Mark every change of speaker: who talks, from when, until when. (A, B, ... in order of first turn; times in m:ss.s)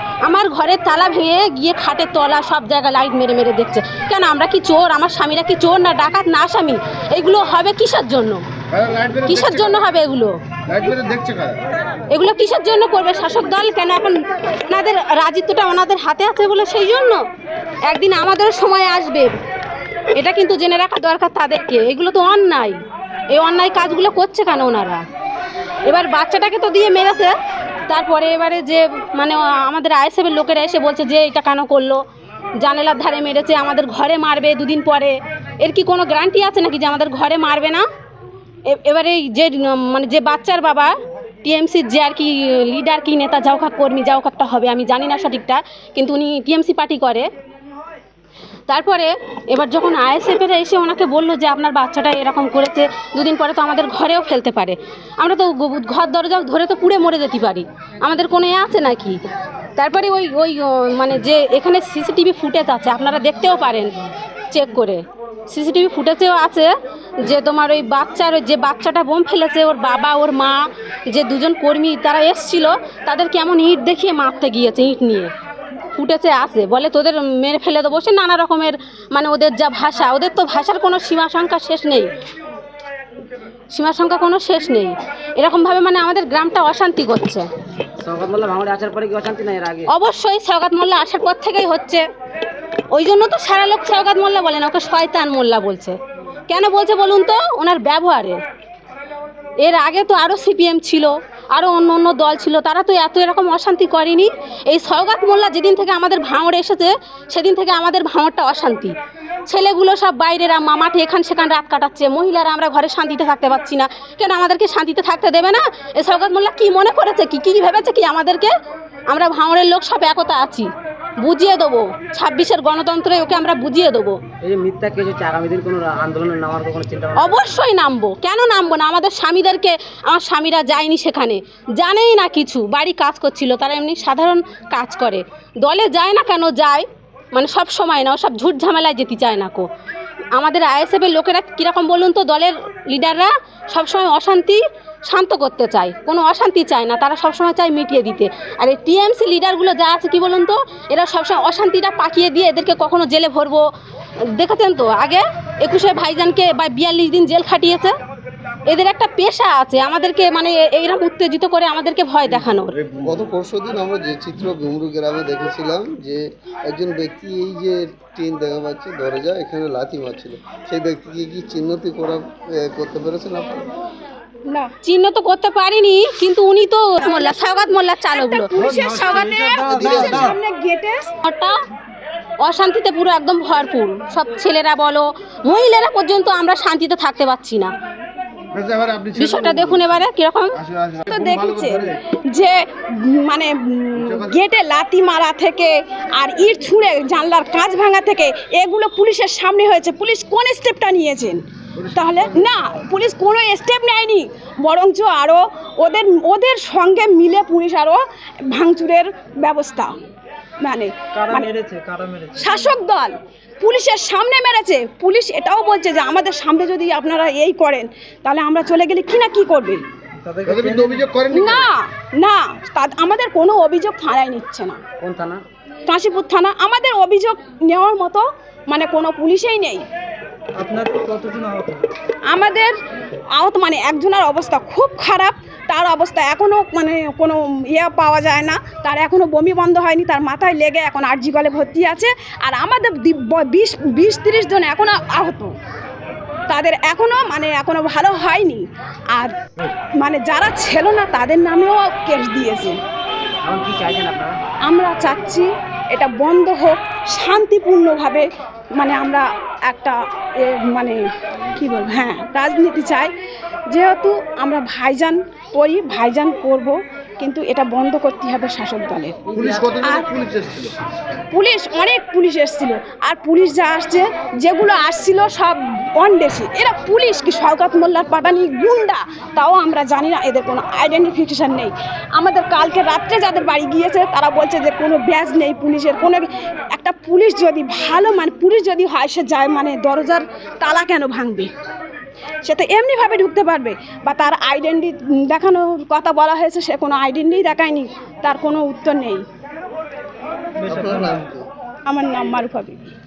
0:00.2-0:08.4 A
0:08.7-0:09.9 B
0:09.2-0:10.3 A
0:10.7-0:11.6 B
0:12.1-0:17.2 A
0:17.9-0:19.4 A
0:20.1-0:25.0 A
0:25.8-0:27.3 A
0:27.9-0:32.0 A
0:32.6-0:37.8 A
0:38.7-0:47.3 A
0:48.7-0:59.2 A
0:59.8-1:03.9 A
1:04.5-1:15.3 A
1:16.0-1:22.1 A
1:23.7-1:27.5 A
1:28.0-1:29.9 C
1:29.9-1:32.0 A
1:32.9-1:36.0 A
1:36.5-1:38.4 A
1:39.6-1:49.0 A
1:49.5-1:58.5 A
1:59.1-2:04.2 A
2:04.4-2:07.5 C
2:07.2-2:19.7 A
2:20.4-2:33.6 A
2:34.3-2:37.9 A
2:38.7-2:42.8 A
2:42.3-2:43.3 B
2:43.0-2:53.7 D
2:54.5-2:54.7 E
2:54.8-2:59.2 A
2:57.0-3:01.1 E
2:58.7-3:00.4 F
2:59.7-3:00.3 D
3:01.2-3:01.6 A
3:02.4-3:07.7 A
3:08.5-3:12.0 B
3:09.2-3:10.6 A
3:11.1-3:21.4 E
3:14.0-3:14.5 B
3:21.8-3:22.5 B
3:21.9-3:30.0 E
3:30.6-3:31.5 E
3:31.1-3:32.7 F
3:32.4-3:39.8 E
3:40.2-3:41.0 C
3:40.4-3:41.8 B
3:41.3-3:44.8 E
3:45.0-3:45.4 C
3:45.9-3:49.9 E
3:50.6-3:51.9 F
3:52.3-3:52.8 E
3:53.4-4:05.5 E
4:06.5-4:09.4 E
4:10.0-4:12.8 E
4:13.4-4:14.4 C
4:14.6-4:18.2 E
4:18.8-4:21.0 E
4:21.6-4:23.1 E
4:23.7-4:29.2 E
4:29.3-4:29.7 C
4:29.3-4:30.7 B
4:29.8-4:30.1 E
4:31.3-4:51.5 E
4:52.4-4:59.2 E
5:00.6-5:01.3 F
5:00.6-5:01.5 D
5:01.9-5:02.9 E